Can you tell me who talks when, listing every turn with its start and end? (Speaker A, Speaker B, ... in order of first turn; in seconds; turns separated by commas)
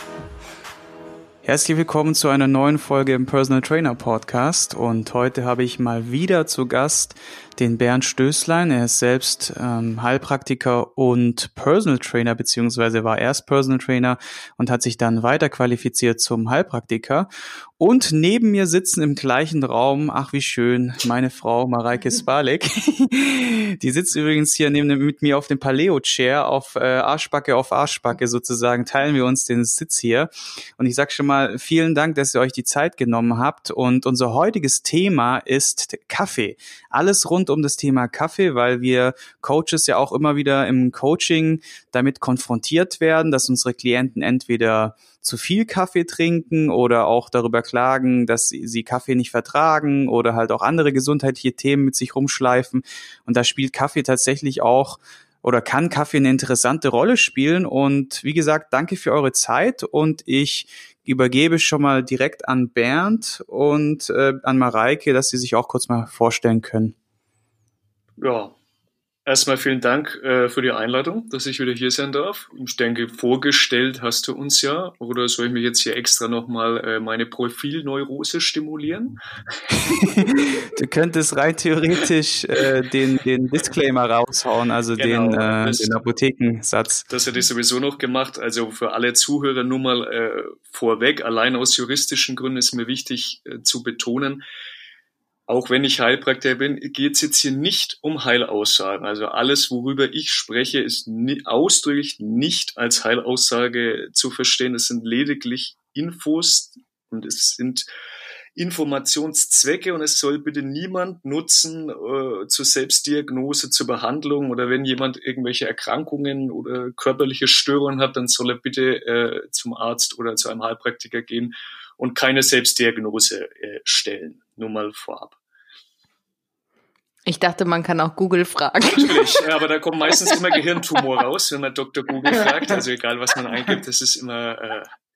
Speaker A: 1.4-67.0, Speaker B: 68.2-68.5, Speaker B: 69.2-79.2, Speaker A: 80.0-87.0, Speaker B: 85.0-85.9, Speaker B: 87.1-94.4, Speaker B: 95.5-107.8, Speaker B: 108.5-125.4, Speaker C: 127.2-129.4, Speaker B: 128.9-134.9, Speaker C: 132.3-132.8, Speaker C: 133.5-133.8